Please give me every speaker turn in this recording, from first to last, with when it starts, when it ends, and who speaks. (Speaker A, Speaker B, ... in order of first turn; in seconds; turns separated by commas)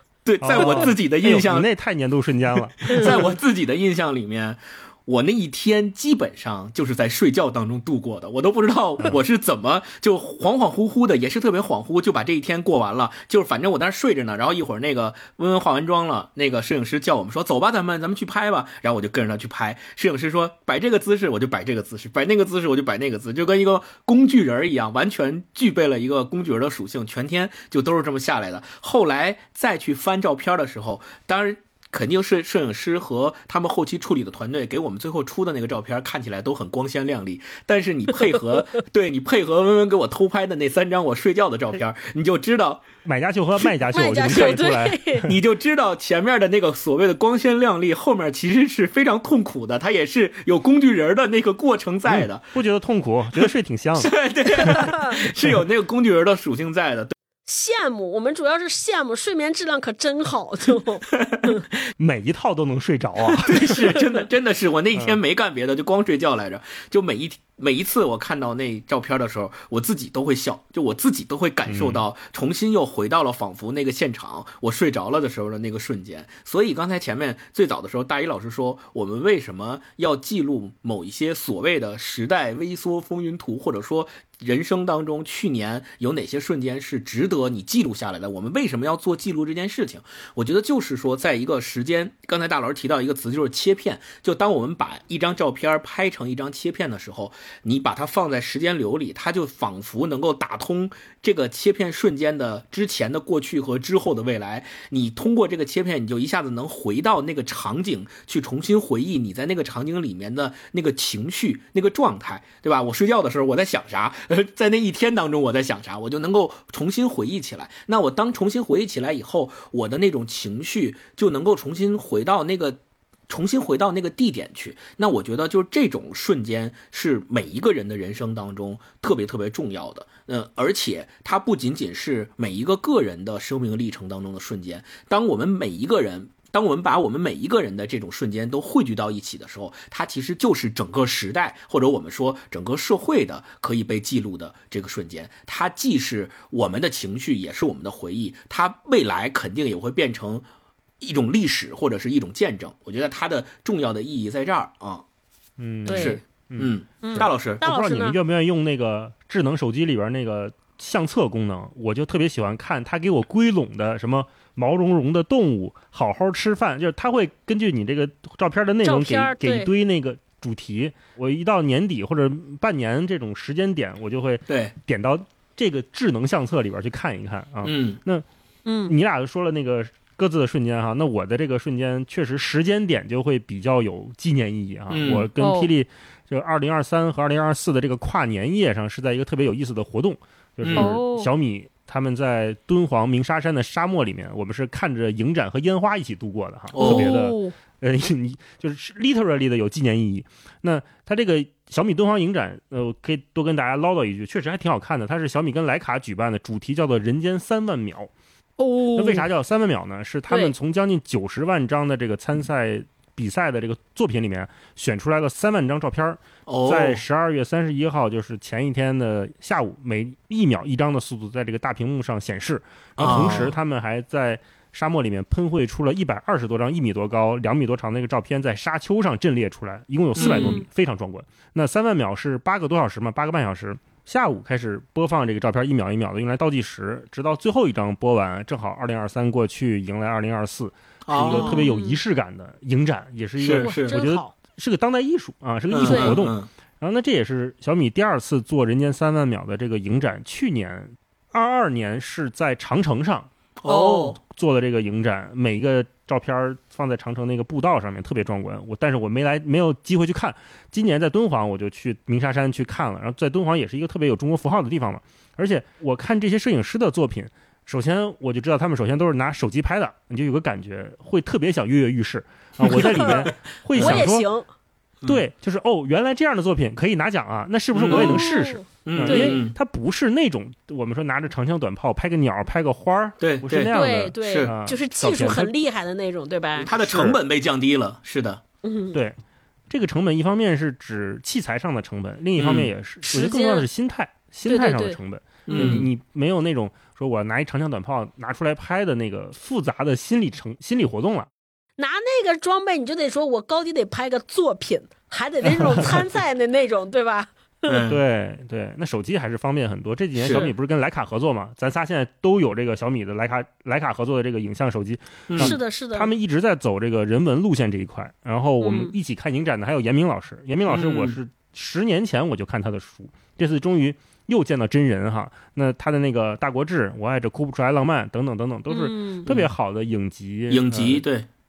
Speaker A: 0.2-1.6, Speaker B: 0.4-3.3, Speaker A: 2.8-42.9, Speaker C: 2.9-3.2, Speaker B: 43.0-45.3, Speaker C: 43.9-45.3, Speaker A: 45.2-52.5, Speaker B: 52.1-54.1, Speaker A: 53.4-57.1, Speaker C: 54.5-55.2, Speaker C: 57.5-61.6, Speaker A: 61.2-61.5, Speaker B: 62.0-63.8, Speaker A: 63.4-150.4, Speaker B: 71.7-72.0, Speaker A: 151.0-155.0, Speaker B: 155.6-178.2, Speaker C: 155.8-156.2, Speaker A: 155.9-157.6, Speaker C: 157.0-158.2, Speaker C: 168.8-169.7, Speaker A: 174.5-174.7, Speaker A: 177.6-178.0, Speaker C: 178.6-178.9, Speaker B: 178.8-208.1, Speaker A: 184.9-185.3, Speaker C: 185.4-185.7, Speaker A: 190.6-190.9, Speaker C: 190.8-191.3, Speaker A: 196.7-197.1, Speaker C: 196.8-197.5, Speaker C: 208.6-209.2, Speaker B: 208.9-253.3, Speaker A: 216.5-217.0, Speaker A: 223.0-223.5, Speaker C: 223.1-223.4, Speaker A: 230.2-230.6, Speaker C: 230.2-230.6, Speaker A: 241.1-241.6, Speaker C: 241.2-242.0, Speaker A: 243.4-243.9, Speaker C: 243.4-244.3, Speaker A: 245.7-246.5, Speaker C: 245.9-246.2, Speaker A: 253.6-254.2, Speaker C: 253.7-254.2, Speaker B: 254.2-274.2, Speaker A: 272.6-274.1, Speaker C: 272.7-273.2, Speaker C: 273.7-274.4, Speaker B: 275.0-285.5, Speaker A: 277.7-278.2, Speaker C: 277.9-279.4, Speaker A: 278.8-279.5, Speaker A: 283.2-284.5, Speaker C: 283.7-287.2, Speaker A: 286.6-288.4, Speaker C: 288.6-288.9, Speaker B: 288.9-289.2, Speaker B: 289.7-301.3, Speaker A: 292.4-292.7, Speaker C: 293.1-293.6, Speaker C: 294.5-295.0, Speaker C: 295.5-295.8, Speaker A: 295.5-295.9, Speaker C: 301.8-307.8, Speaker A: 307.7-308.0, Speaker B: 307.9-331.0, Speaker A: 310.1-310.5, Speaker A: 315.3-315.5, Speaker C: 315.4-316.1, Speaker C: 318.6-318.9, Speaker A: 320.7-321.1, Speaker C: 328.7-329.3, Speaker A: 330.5-331.3